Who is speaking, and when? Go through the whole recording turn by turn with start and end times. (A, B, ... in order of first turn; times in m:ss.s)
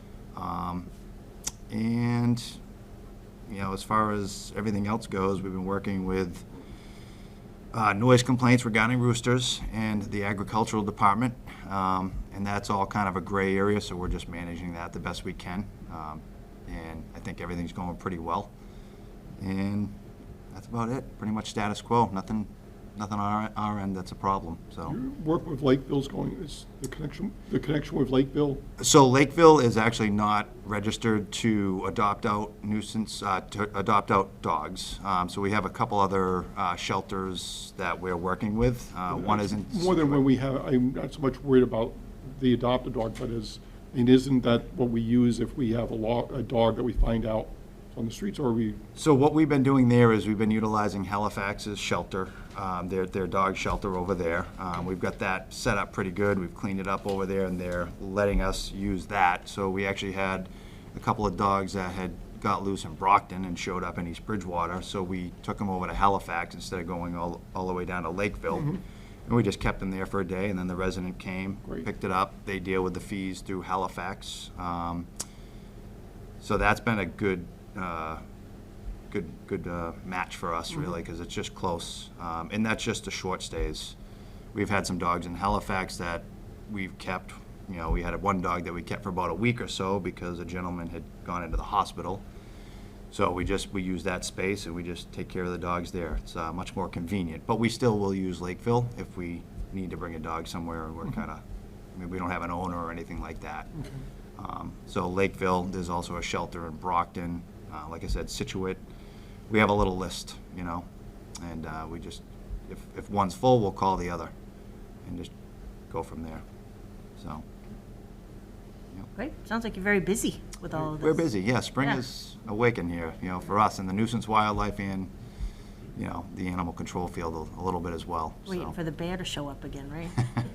0:00.3-0:00.9 A
0:01.7-0:02.6 A
0:03.5-0:06.4 A
0:07.7-0:18.5 A
0:19.4-0:19.9 A
0:20.5-0:25.0 A
0:24.8-0:28.6 B
0:28.8-0:40.2 A
0:39.1-0:48.8 B
0:49.0-1:08.7 A
1:09.3-1:15.1 A
1:16.4-1:18.2 A
1:19.1-1:23.9 A
1:24.5-1:32.2 A
1:33.1-1:41.4 A
1:41.9-1:43.7 A
1:44.4-1:48.8 A
1:49.5-1:50.8 A
1:51.4-1:54.3 A
1:55.0-1:55.3 A
1:55.9-1:56.4 A
1:57.2-1:57.4 A
1:59.1-2:01.3 C
2:00.8-2:05.1 A
2:05.9-2:08.7 A
2:08.5-2:10.2 C